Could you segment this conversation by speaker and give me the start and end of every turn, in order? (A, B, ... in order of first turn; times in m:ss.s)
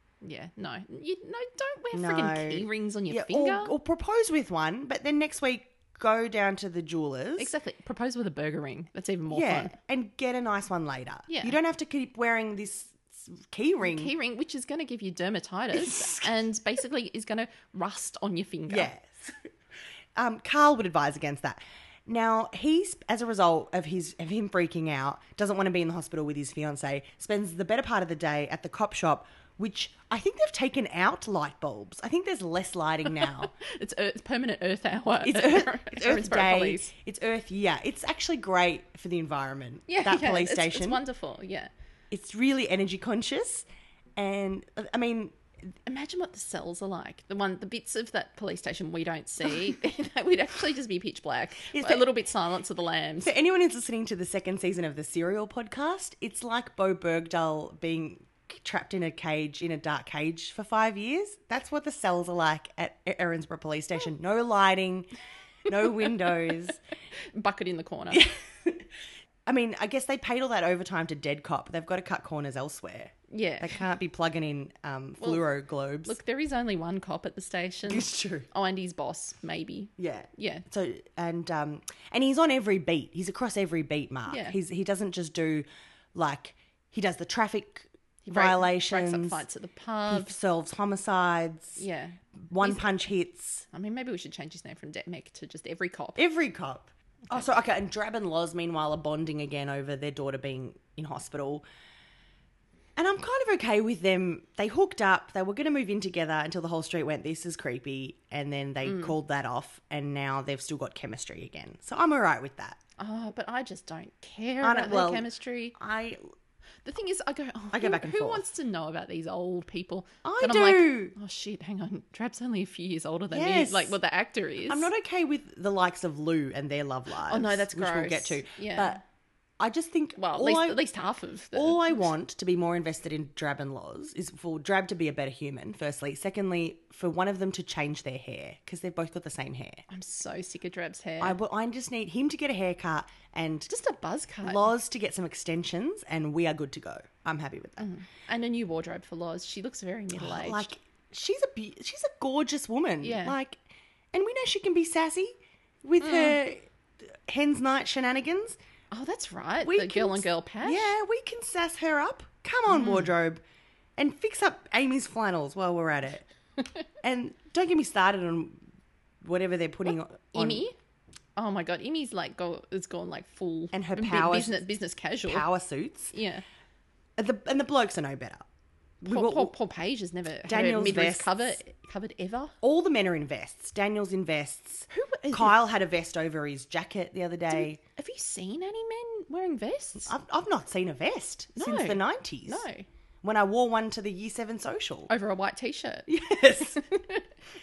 0:00.2-0:03.7 A
0:01.9-0:07.5 B
0:07.4-0:09.8 A
0:09.3-0:14.1 B
0:11.3-0:11.6 A
0:13.8-0:18.9 A
0:15.7-0:16.3 B
0:18.7-0:19.4 B
0:20.2-0:33.5 B
0:33.2-0:36.9 A
0:35.2-0:41.0 B
0:39.9-0:41.7 A
0:42.1-0:45.4 B
0:45.9-0:53.3 A
0:51.7-0:52.1 B
0:53.2-1:05.1 B
1:05.7-1:06.8 B
1:07.3-1:08.3 A
1:08.1-1:08.9 B
1:09.5-1:16.2 B
1:13.3-1:13.8 A
1:16.0-1:20.6 A
1:17.9-1:18.5 B
1:20.0-1:29.4 B
1:24.3-1:24.6 A
1:28.3-1:30.3 A
1:30.1-1:31.8 B
1:31.8-1:33.0 A
1:32.5-1:33.6 B
1:33.7-1:36.2 A
1:36.2-1:41.6 B
1:43.0-1:52.8 B
1:48.8-1:49.2 A
1:53.0-1:55.8 A
1:54.6-1:56.3 B
1:56.8-2:04.9 A
1:57.7-1:58.5 B
2:00.2-2:01.2 B
2:03.3-2:04.0 B
2:04.7-2:09.0 B
2:07.3-2:09.0 A
2:09.6-2:10.8 B
2:10.2-2:12.0 A
2:11.5-2:19.8 B
2:19.9-2:21.4 A
2:21.2-2:23.7 B
2:23.7-2:24.7 A
2:24.4-2:27.9 B
2:27.8-2:30.7 A
2:30.1-2:33.6 B
2:33.0-2:33.4 A
2:34.1-2:38.6 B
2:36.0-2:36.4 A
2:38.9-2:40.9 A
2:39.6-2:43.4 B
2:42.7-2:43.1 A
2:44.0-2:46.3 B
2:47.0-2:48.6 B
2:49.2-2:50.7 B
2:50.3-2:50.8 A
2:51.4-2:55.5 A
2:53.7-2:54.6 B
2:55.2-2:56.1 B
2:56.1-2:56.4 A
2:57.2-2:58.5 B
2:59.0-2:59.5 B
2:59.1-3:02.6 A
3:00.5-3:01.6 B
3:02.6-3:07.8 B
3:04.9-3:05.6 A
3:07.5-3:10.1 A
3:10.0-3:12.7 B
3:11.6-3:12.9 A
3:13.2-3:15.1 B
3:15.1-3:16.1 A
3:16.1-3:16.8 B
3:16.8-3:17.2 A